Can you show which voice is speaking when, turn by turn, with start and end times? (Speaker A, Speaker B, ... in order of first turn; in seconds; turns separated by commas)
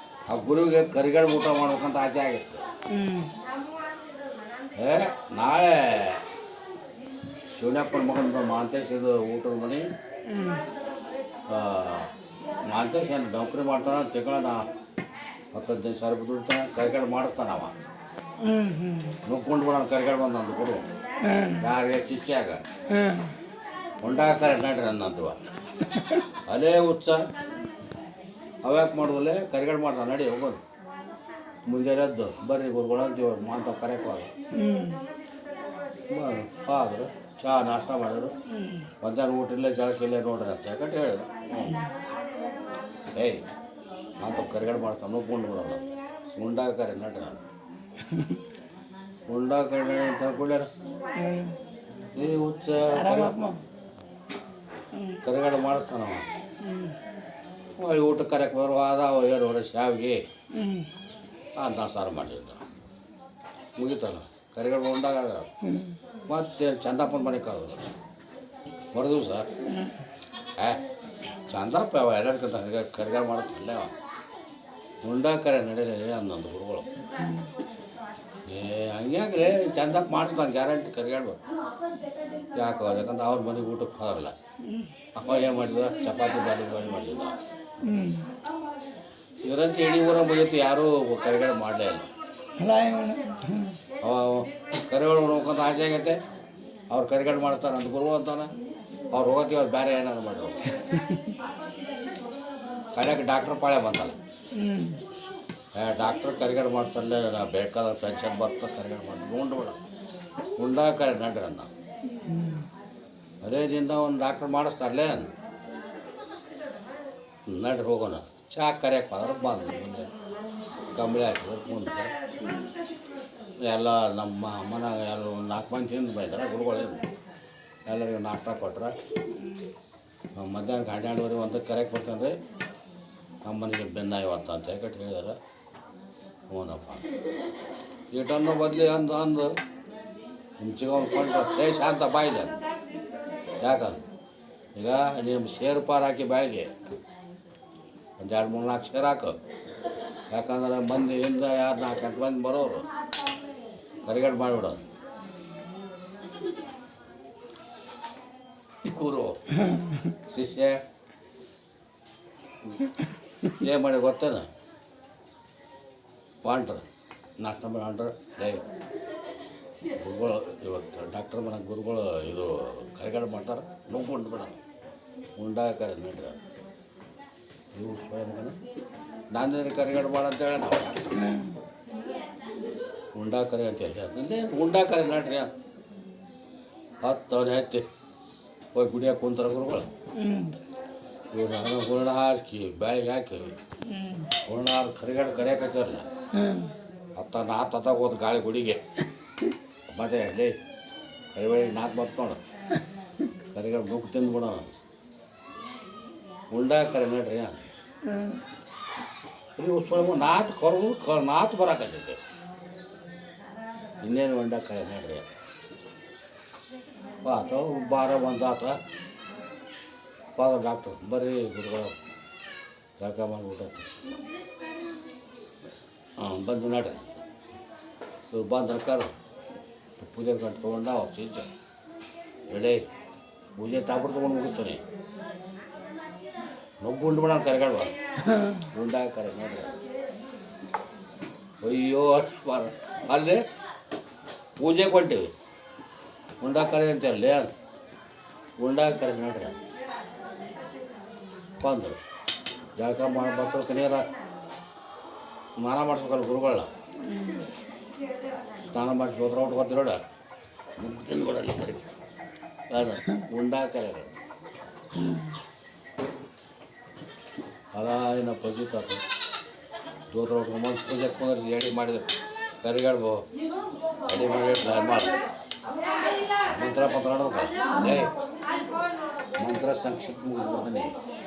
Speaker A: 0.3-2.7, Speaker B: 2.9-3.3, Speaker A: 4.8-6.2, Speaker A: 7.5-9.9, Speaker B: 10.3-10.7, Speaker A: 11.5-12.1, Speaker A: 12.6-14.6, Speaker A: 15.5-17.7, Speaker B: 18.4-19.2, Speaker A: 19.3-20.9, Speaker B: 21.2-21.6, Speaker A: 21.6-22.6, Speaker B: 22.9-23.3, Speaker A: 24.0-25.4, Speaker B: 25.9-26.2, Speaker A: 26.5-27.2, Speaker A: 28.6-30.6, Speaker A: 31.7-34.3, Speaker B: 34.5-35.0, Speaker A: 36.1-38.4, Speaker B: 38.5-38.9, Speaker A: 39.0-41.9, Speaker B: 41.6-41.9, Speaker A: 43.1-43.4, Speaker A: 44.2-45.8, Speaker A: 46.3-47.4, Speaker B: 48.0-48.4, Speaker A: 49.3-50.7, Speaker B: 51.1-51.6, Speaker A: 52.2-53.4, Speaker B: 52.9-53.6, Speaker B: 55.0-55.2, Speaker A: 55.2-56.3, Speaker B: 56.6-57.0, Speaker A: 57.8-60.2, Speaker B: 60.5-60.9, Speaker A: 61.6-62.6, Speaker A: 63.8-65.5, Speaker B: 65.7-66.0, Speaker A: 66.3-67.9, Speaker A: 68.9-69.5, Speaker B: 69.7-70.0, Speaker A: 71.5-73.9, Speaker A: 75.0-76.9, Speaker B: 77.2-77.5, Speaker A: 78.5-81.4, Speaker A: 82.5-84.3, Speaker B: 84.7-84.9, Speaker A: 85.2-87.4, Speaker B: 87.8-88.3, Speaker A: 89.4-92.1, Speaker B: 92.6-93.8, Speaker A: 94.0-96.2, Speaker A: 96.9-98.5, Speaker A: 99.1-100.8, Speaker B: 100.9-101.4, Speaker A: 102.9-104.2, Speaker B: 104.5-105.0, Speaker A: 105.8-109.8, Speaker A: 110.6-111.7, Speaker B: 112.1-112.7, Speaker A: 113.4-115.3, Speaker A: 117.5-120.1, Speaker A: 120.9-122.1, Speaker B: 122.4-122.7, Speaker A: 123.6-127.0, Speaker A: 127.9-128.9, Speaker B: 129.4-129.7, Speaker A: 130.4-132.3, Speaker A: 133.4-135.4, Speaker A: 136.5-137.1, Speaker A: 138.1-139.6, Speaker A: 140.6-142.6, Speaker A: 143.6-144.0, Speaker A: 144.8-146.7, Speaker A: 148.2-149.4, Speaker A: 150.3-152.9, Speaker A: 154.0-154.8, Speaker A: 158.8-159.4, Speaker A: 160.2-160.8, Speaker A: 163.5-164.5, Speaker A: 166.4-166.9, Speaker A: 167.4-168.6, Speaker A: 170.0-174.6, Speaker A: 175.4-176.4, Speaker A: 177.7-178.6, Speaker A: 179.3-181.2, Speaker B: 181.2-181.6, Speaker A: 183.1-185.5, Speaker A: 187.0-187.8, Speaker A: 188.7-189.9, Speaker B: 190.2-190.6, Speaker A: 191.3-193.6, Speaker B: 193.9-194.3, Speaker A: 194.4-196.1, Speaker B: 196.3-196.7, Speaker A: 197.2-198.8, Speaker A: 199.9-200.6, Speaker A: 201.3-202.4, Speaker A: 203.5-204.7, Speaker A: 206.5-207.7, Speaker B: 208.1-208.4, Speaker A: 209.6-212.2, Speaker A: 214.0-215.3, Speaker A: 217.2-218.8, Speaker A: 220.4-221.9, Speaker A: 223.0-223.9, Speaker A: 226.2-227.1, Speaker A: 228.3-229.1, Speaker A: 230.0-231.5, Speaker A: 232.5-232.8, Speaker A: 233.6-234.8, Speaker A: 236.8-237.9, Speaker B: 238.3-238.6, Speaker A: 238.7-239.7, Speaker A: 241.6-243.4, Speaker A: 244.6-245.3, Speaker A: 246.4-247.5, Speaker A: 248.6-249.6, Speaker A: 251.6-252.0, Speaker A: 252.8-254.1, Speaker A: 255.6-256.7, Speaker B: 257.1-257.5, Speaker A: 258.6-260.0, Speaker A: 260.8-261.9, Speaker A: 262.7-264.1, Speaker B: 265.0-265.3, Speaker A: 267.7-269.0, Speaker A: 270.1-272.1, Speaker A: 272.6-273.2, Speaker A: 274.1-275.2, Speaker A: 276.4-278.1, Speaker A: 279.4-280.9